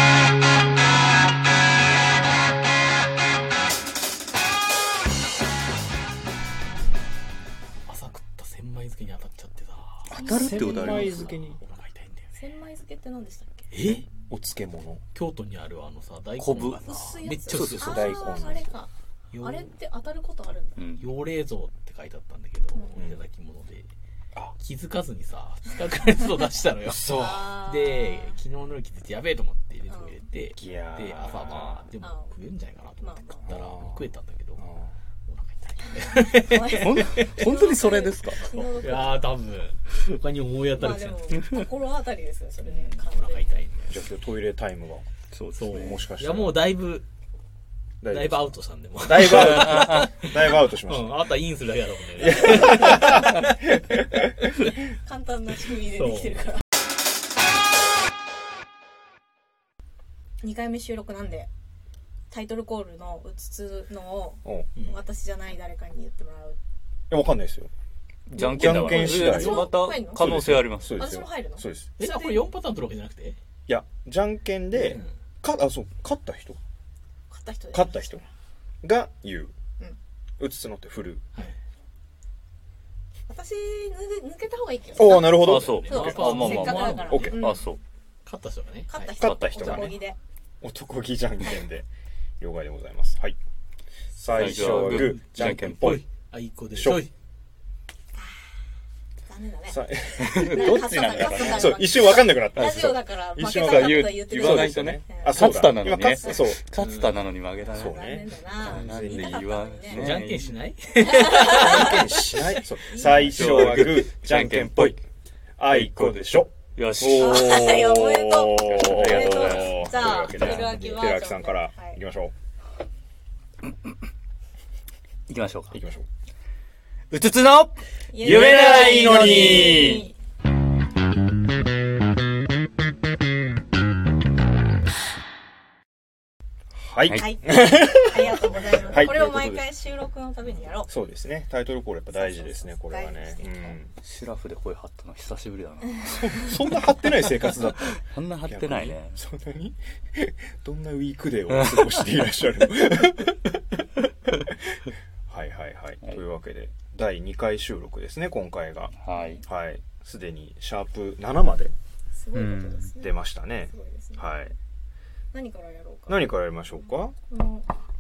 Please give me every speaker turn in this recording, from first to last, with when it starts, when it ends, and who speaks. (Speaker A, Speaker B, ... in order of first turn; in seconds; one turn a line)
Speaker A: 7.9-12.4
Speaker B: 10.1-11.2
Speaker C: 10.1-11.6
Speaker D: 10.1-11.2
Speaker D: 12.3-13.7
Speaker A: 13.7-14.1
Speaker C: 13.9-15.0
Speaker A: 15.1-18.6
Speaker B: 16.4-16.8
Speaker D: 16.8-20.9
Speaker B: 17.5-17.9
Speaker C: 17.8-18.8
Speaker A: 19.3-19.7
Speaker B: 20.8-21.1
Speaker A: 21.0-23.9
Speaker C: 23.0-23.2
Speaker A: 24.6-34.7
Speaker C: 26.8-27.6
Speaker D: 27.1-28.4
Speaker D: 29.9-30.2
Speaker C: 30.5-31.9
Speaker D: 32.0-32.3
Speaker D: 33.0-33.5
Speaker C: 33.4-35.0
Speaker A: 35.3-37.3
Speaker D: 36.2-39.4
Speaker B: 36.7-38.7
Speaker A: 38.8-41.6
Speaker D: 40.7-43.6
Speaker A: 42.6-44.1
Speaker C: 43.9-45.1
Speaker B: 45.3-46.0
Speaker A: 45.5-47.1
Speaker C: 45.7-46.7
Speaker C: 48.0-51.3
Speaker A: 48.1-53.5
Speaker B: 49.2-50.1
Speaker C: 52.2-53.9
Speaker D: 52.7-53.0
Speaker D: 54.8-56.6
Speaker A: 55.9-56.5
Speaker D: 60.4-61.5
Speaker D: 62.3-66.6
Speaker C: 64.5-64.7
Speaker C: 67.1-67.7
Speaker C: 68.3-72.0
Speaker B: 68.3-71.0
Speaker D: 68.6-70.3
Speaker D: 70.8-72.5
Speaker A: 72.0-73.4
Speaker C: 73.7-76.6
Speaker A: 74.7-75.1
Speaker D: 77.3-78.1
Speaker C: 77.7-78.2
Speaker C: 78.8-79.5
Speaker C: 80.4-81.2
Speaker D: 83.3-87.7
Speaker C: 85.0-86.3
Speaker A: 85.1-87.4
Speaker B: 85.4-87.8
Speaker C: 87.1-87.4
Speaker A: 88.2-89.1
Speaker D: 88.9-90.2
Speaker C: 89.2-90.0
Speaker B: 89.2-90.0
Speaker C: 90.6-91.9
Speaker C: 92.4-93.4
Speaker C: 94.1-96.0
Speaker B: 94.3-96.0
Speaker A: 94.4-97.1
Speaker C: 96.7-97.1
Speaker D: 99.3-105.7
Speaker C: 99.7-106.6
Speaker B: 100.2-101.9
Speaker B: 102.5-103.0
Speaker B: 103.5-108.0
Speaker D: 106.2-106.5
Speaker A: 106.8-107.2
Speaker C: 107.7-109.5
Speaker D: 107.8-110.2
Speaker B: 108.5-110.5
Speaker A: 109.9-112.0
Speaker D: 111.0-112.2
Speaker C: 111.3-115.0
Speaker D: 112.9-113.8
Speaker B: 113.0-115.0
Speaker C: 115.6-122.3
Speaker B: 115.7-118.0
Speaker D: 117.2-122.0
Speaker B: 118.6-120.6
Speaker B: 125.3-125.8
Speaker C: 125.7-126.1
Speaker B: 127.1-130.1
Speaker D: 128.1-130.1
Speaker C: 128.4-129.9
Speaker C: 136.8-139.7
Speaker D: 137.1-140.9
Speaker C: 140.9-144.0
Speaker D: 142.1-143.8
Speaker B: 144.0-146.9
Speaker C: 146.1-153.6
Speaker B: 147.8-149.2
Speaker B: 151.5-152.1
Speaker C: 155.3-161.8
Speaker B: 159.0-159.4
Speaker D: 159.1-159.4
Speaker D: 162.1-163.2
Speaker B: 162.3-162.9
Speaker C: 163.0-164.6
Speaker D: 163.7-164.3
Speaker D: 165.3-166.3
Speaker C: 166.1-167.2
Speaker D: 167.3-167.8